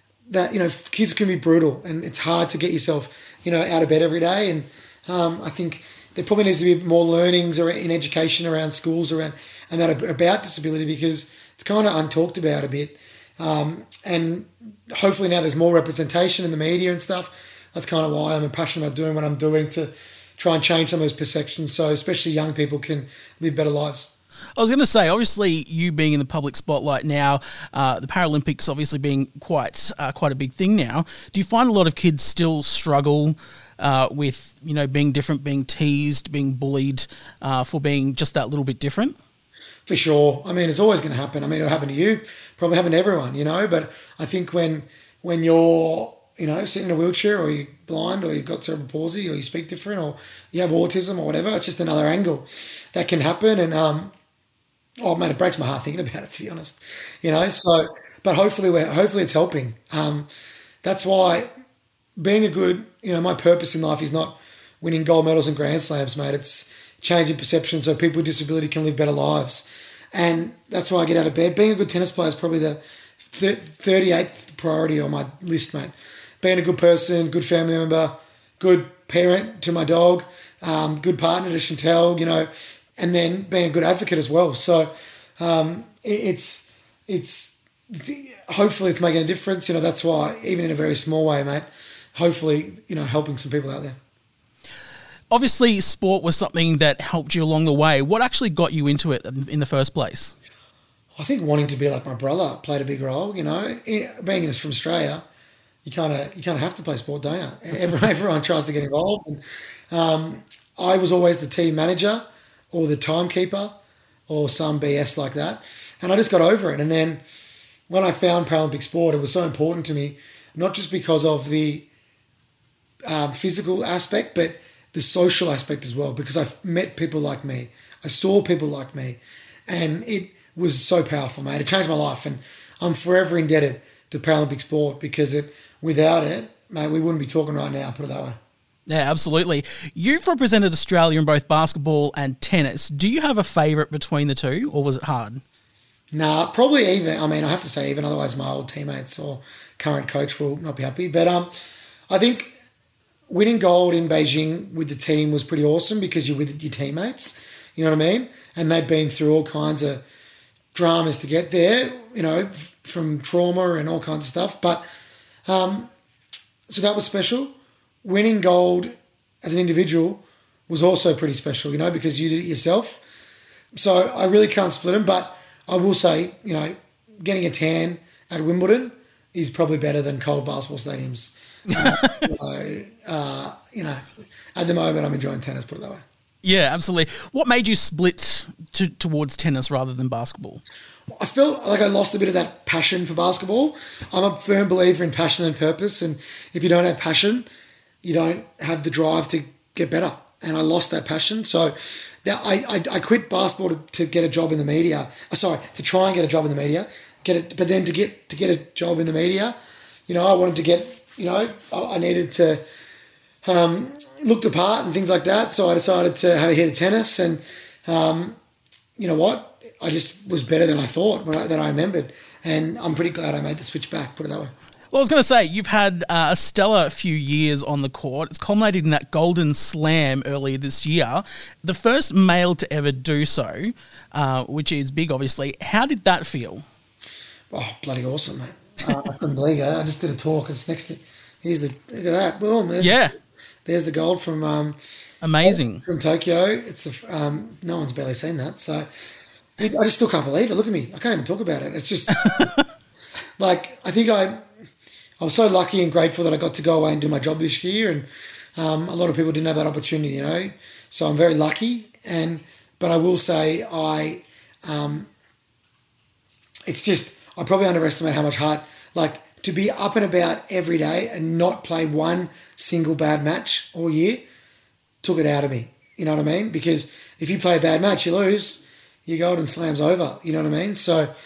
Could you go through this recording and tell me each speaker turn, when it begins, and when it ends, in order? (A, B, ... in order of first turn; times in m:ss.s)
0:00.3-0:24.1 A
0:24.6-0:39.2 B
0:39.9-0:54.1 A
0:55.0-1:00.3 A
1:00.8-1:01.5 A
1:02.2-1:34.0 A
1:35.3-1:40.3 B
1:41.2-1:45.2 A
1:45.8-1:57.2 A
1:57.9-2:01.9 A
2:03.1-2:18.4 A
2:18.9-2:25.4 B
2:26.1-2:31.5 A
2:32.1-2:32.6 A
2:33.3-2:40.0 A
2:40.7-2:44.8 A
2:45.5-2:45.9 A
2:46.7-2:53.0 A
2:53.7-3:04.0 A
3:01.7-3:02.2 B
3:04.6-3:06.0 A
3:06.4-3:10.6 B
3:11.1-3:17.5 A
3:18.0-3:29.6 A
3:30.1-3:32.6 A
3:33.4-3:38.4 A
3:39.0-3:44.5 A
3:44.9-3:56.6 B
3:57.5-4:03.1 A
4:02.8-4:03.2 B
4:03.6-4:04.8 A
4:05.2-4:05.8 B
4:05.4-4:08.9 A
4:09.6-4:12.5 A
4:12.1-4:12.5 B
4:13.4-4:14.5 A
4:15.2-4:25.1 A
4:26.7-4:34.2 A
4:35.0-4:41.1 A